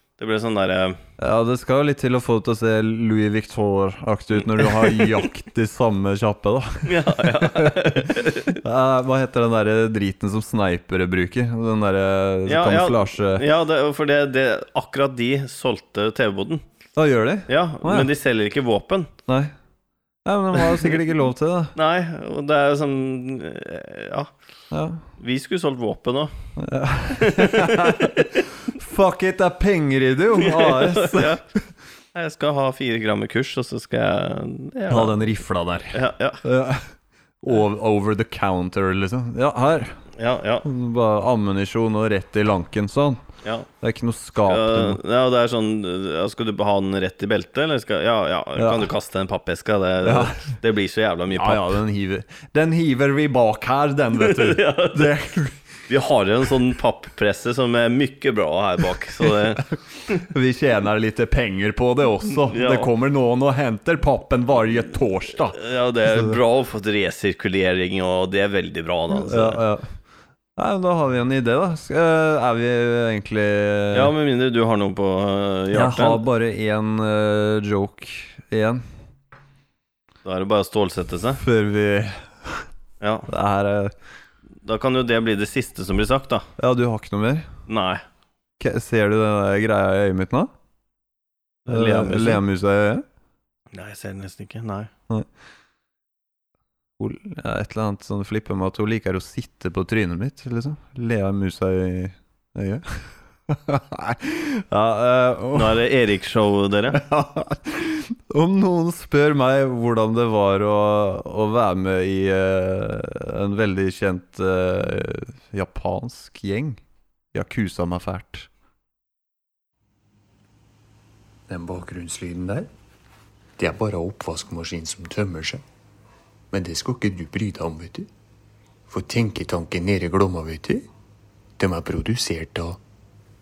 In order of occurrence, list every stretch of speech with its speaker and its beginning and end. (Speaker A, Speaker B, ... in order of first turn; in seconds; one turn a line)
Speaker A: 0.2-1.0
Speaker B: 1.2-13.4
Speaker A: 4.6-5.1
Speaker A: 6.8-8.6
Speaker A: 12.5-16.6
Speaker B: 16.9-18.1
Speaker A: 17.5-19.1
Speaker B: 19.3-19.5
Speaker B: 20.3-21.7
Speaker A: 20.6-20.9
Speaker A: 21.7-24.3
Speaker B: 24.7-25.0
Speaker A: 25.2-26.3
Speaker B: 26.6-31.4
Speaker A: 27.1-28.4
Speaker A: 30.4-31.4
Speaker A: 32.1-35.2
Speaker B: 34.9-36.9
Speaker A: 35.9-36.4
Speaker B: 37.4-40.0
Speaker A: 40.2-40.7
Speaker B: 40.6-43.2
Speaker B: 43.8-45.0
Speaker A: 44.5-51.7
Speaker B: 48.6-48.9
Speaker B: 50.0-50.4
Speaker B: 51.3-55.6
Speaker A: 54.2-55.1
Speaker A: 55.9-60.3
Speaker B: 60.2-66.4
Speaker A: 62.5-62.9
Speaker A: 65.5-69.6
Speaker B: 69.1-69.9
Speaker B: 70.6-74.1
Speaker A: 73.9-76.2
Speaker B: 75.7-78.8
Speaker A: 80.2-81.4
Speaker B: 81.4-82.7
Speaker A: 83.0-83.3
Speaker B: 83.3-84.0
Speaker A: 84.6-86.5
Speaker B: 86.6-87.5
Speaker A: 87.7-88.0
Speaker B: 88.6-90.5
Speaker A: 91.7-92.4
Speaker B: 91.7-93.0
Speaker A: 93.7-94.9
Speaker B: 97.0-105.8
Speaker A: 105.5-107.0
Speaker B: 106.9-116.8
Speaker B: 117.3-118.5
Speaker C: 121.5-122.6
Speaker C: 123.6-125.6
Speaker C: 126.5-128.1
Speaker C: 128.9-130.8
Speaker C: 131.6-132.8